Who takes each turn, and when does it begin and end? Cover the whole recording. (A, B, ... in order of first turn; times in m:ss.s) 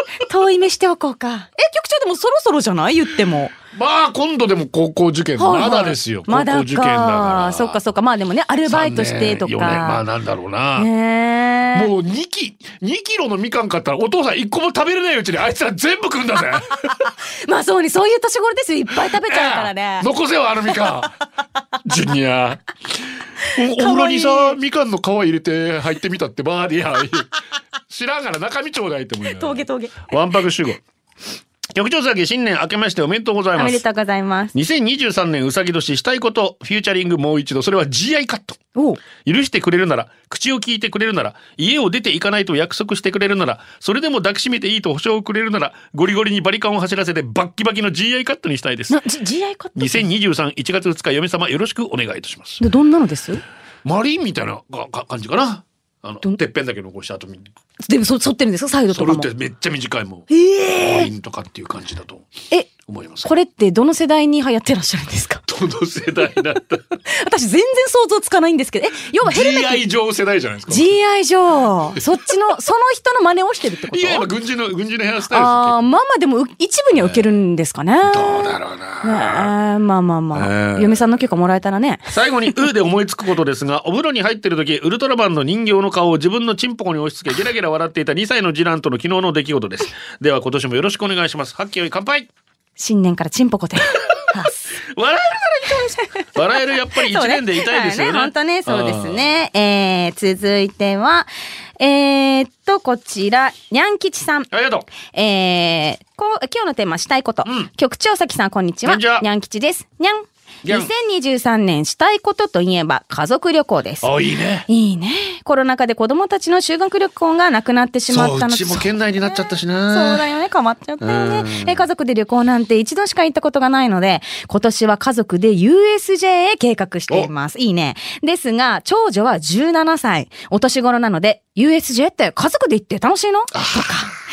0:00.2-0:03.5 A
0:03.7-0:07.8 B
0:05.4-0:10.0 A
0:08.6-0:10.9 B
0:10.8-0:11.9 A
0:11.7-0:17.1 B
0:17.0-0:20.1 A
0:18.9-0:21.1 B
0:21.8-0:22.6 B
0:23.4-0:24.6 A
0:23.5-0:27.3 B
0:27.9-0:30.8 B
0:29.2-0:30.1 A
0:31.7-0:33.8 B
0:33.6-0:34.5 A
0:34.5-0:38.6 B
0:38.7-0:39.0 A
0:39.2-0:49.0 B
0:48.9-0:50.1 A
0:49.8-0:52.6 B
0:52.6-0:53.4 A
0:53.8-0:57.5 B
0:57.8-0:59.3 A
0:58.9-1:03.3 B
1:00.3-1:01.1 A
1:03.2-1:05.4 A
1:05.5-1:07.0 B
1:07.1-1:09.8 A
1:09.2-1:10.9 B
1:10.7-1:14.3 A
1:13.9-1:15.8 B
1:15.3-1:18.5 A
1:16.9-1:17.3 B
1:18.0-1:19.5 B
1:19.0-1:22.1 A
1:20.3-1:21.0 B
1:22.1-1:32.3 B
1:32.8-1:34.7 A
1:34.8-1:39.3 B
1:35.7-1:36.2 A
1:37.0-1:44.5 A
1:44.5-1:44.9 B
1:45.0-1:54.1 A
1:47.4-1:47.7 B
1:48.8-1:49.2 B
1:50.6-1:50.9 B
1:54.0-1:54.7 B
1:54.7-2:14.1 A
1:58.1-2:00.2 B
2:01.0-2:01.8 B
2:13.5-2:13.9 B